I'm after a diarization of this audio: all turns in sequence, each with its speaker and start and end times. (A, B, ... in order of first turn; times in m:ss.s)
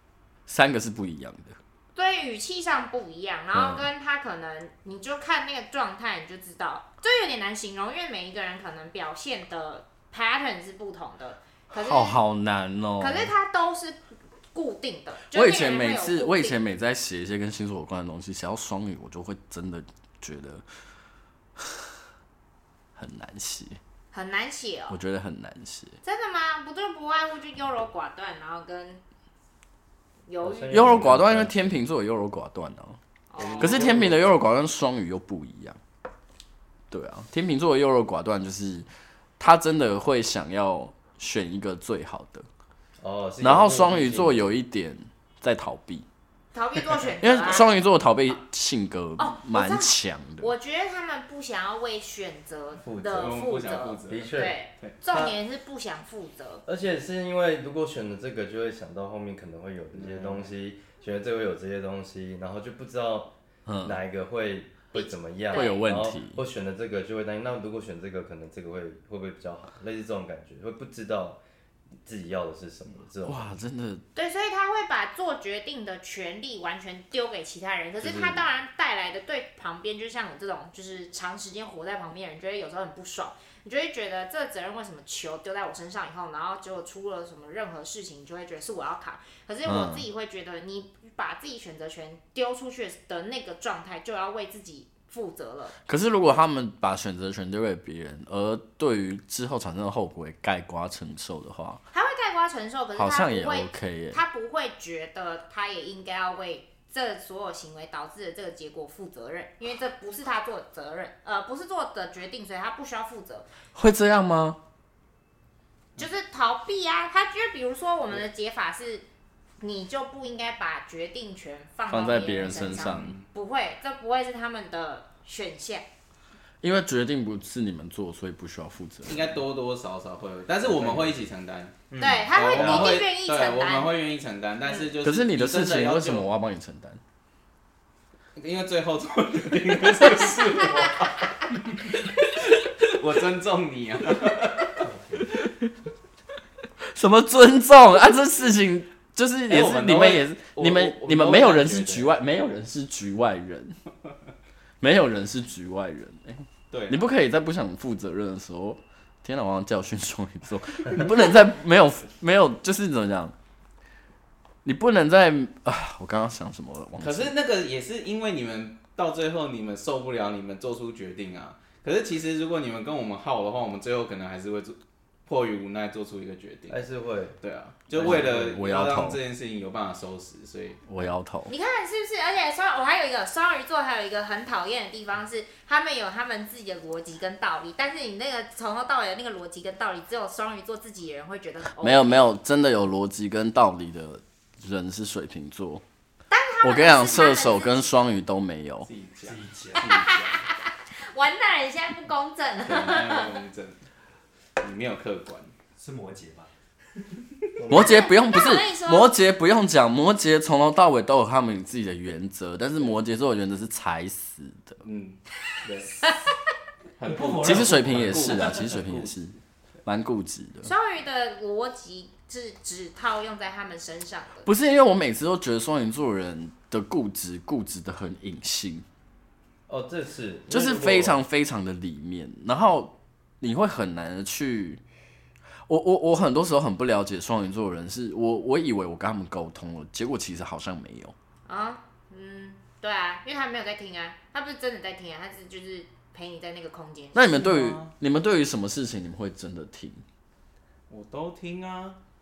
0:00.5-0:01.6 A
0:01.9-0:12.2 B
0:03.5-0:03.9 A
0:11.7-0:13.3 A
0:13.0-0:14.0 B
0:14.5-0:16.6 B
0:15.3-0:20.6 A
0:21.6-0:21.9 A
0:23.0-0:23.8 A
0:24.1-0:25.0 B
0:24.9-0:26.0 A
0:26.0-0:29.0 B
0:30.3-0:31.0 B
0:30.4-0:31.8 C
0:30.7-0:33.0 A
0:33.3-0:34.0 B
0:33.4-0:34.3 C
0:33.6-0:35.8 A
0:36.9-0:38.9 A
0:39.4-0:42.5 A
0:43.0-0:44.4 C
0:43.4-0:46.0 A
0:46.5-0:47.7 B
0:47.2-0:50.5 A
0:49.2-0:56.6 B
0:52.9-0:55.0 D
0:52.9-0:53.3 C
0:54.1-0:54.6 C
0:55.1-0:55.3 C
0:56.6-1:11.4 C
0:59.9-1:00.5 D
1:03.6-1:04.0 A
1:04.9-1:05.8 B
1:05.5-1:06.4 A
1:12.0-1:13.5 C
1:13.2-1:14.0 A
1:14.1-1:35.8 B
1:18.0-1:18.4 C
1:29.6-1:30.0 A
1:35.8-1:41.8 A
1:41.9-1:53.5 B
1:43.0-1:44.2 A
1:53.7-1:54.6 A
1:56.0-1:59.0 B
1:59.6-2:05.9 B
2:01.9-2:03.2 A
2:02.6-2:03.3 D
2:06.6-2:09.3 A
2:09.0-2:16.3 D
2:11.9-2:12.9 C
2:12.0-2:13.9 B
2:15.0-2:17.0 A
2:18.4-2:24.8 D
2:24.8-2:25.2 E
2:25.4-2:25.7 A
2:26.8-2:33.8 A
2:29.5-2:32.1 D
2:34.8-2:43.3 A
2:36.7-2:37.0 D
2:44.6-2:47.3 A
2:47.0-2:56.8 D
2:56.7-2:57.4 C
2:57.4-3:00.8 D
2:57.9-2:59.2 A
3:00.9-3:01.5 A
3:01.5-3:12.3 B
3:11.8-3:15.8 A
3:16.3-3:17.9 B
3:16.6-3:18.9 A
3:18.8-3:20.4 D
3:19.2-3:20.0 E
3:19.8-3:23.3 B
3:22.6-3:23.8 D
3:24.6-3:25.5 D
3:25.8-3:26.5 E
3:27.6-3:27.8 D
3:27.7-3:34.8 A
3:27.7-3:29.1 B
3:34.8-3:36.1 D
3:37.0-3:39.2 D
3:37.0-3:38.6 E
3:37.4-3:40.7 A
3:40.6-3:44.5 B
3:44.4-3:48.8 A
3:49.7-3:51.2 C
3:50.5-3:54.8 A
3:55.7-4:01.1 A
4:01.5-4:07.5 B
4:07.1-4:10.0 A
4:07.4-4:07.9 D
4:10.9-4:12.0 D